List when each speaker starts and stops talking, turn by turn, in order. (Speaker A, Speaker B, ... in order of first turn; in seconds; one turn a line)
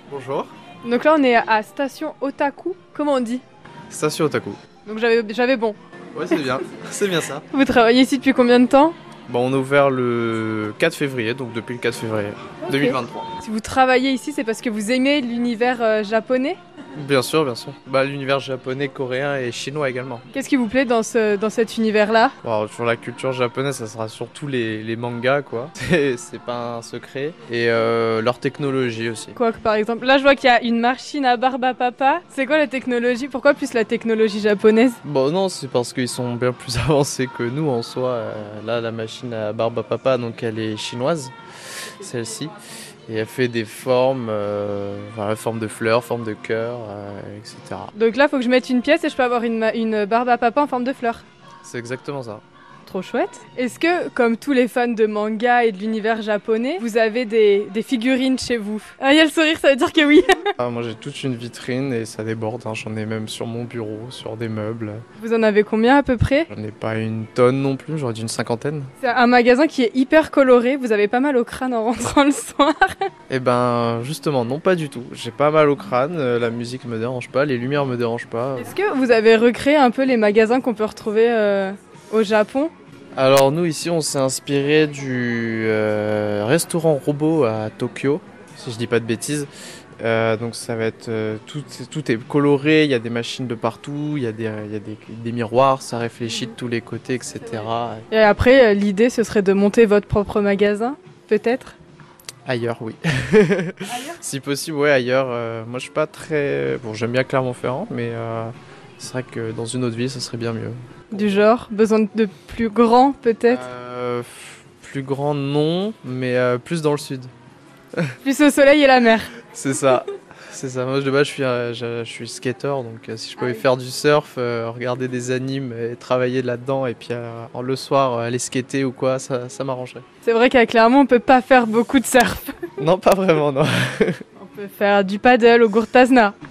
Speaker A: 0.1-0.5
Speaker B: 0.8-3.4
Speaker A: 3.9-4.6
Speaker B: 4.8-5.8
Speaker A: 6.1-7.5
Speaker B: 7.5-8.9
Speaker A: 9.3-13.3
Speaker B: 12.7-16.6
Speaker A: 16.9-20.2
Speaker B: 20.3-22.3
Speaker A: 22.4-29.4
Speaker B: 29.4-35.0
Speaker A: 35.0-42.6
Speaker A: 43.1-47.9
Speaker B: 47.9-51.2
Speaker A: 51.6-52.4
Speaker B: 52.9-60.5
Speaker A: 60.6-65.0
Speaker B: 65.2-66.5
Speaker A: 66.5-68.9
Speaker B: 69.0-73.1
Speaker A: 73.3-78.8
Speaker B: 78.6-82.7
Speaker A: 83.2-89.5
Speaker A: 90.0-98.1
Speaker B: 98.1-101.8
Speaker A: 102.5-111.4
Speaker B: 103.9-104.2
Speaker B: 111.1-113.6
Speaker A: 113.5-117.3
Speaker B: 118.2-119.3
Speaker A: 119.5-130.0
Speaker B: 123.4-123.7
Speaker B: 130.2-132.7
Speaker A: 132.8-134.2
Speaker B: 134.4-136.3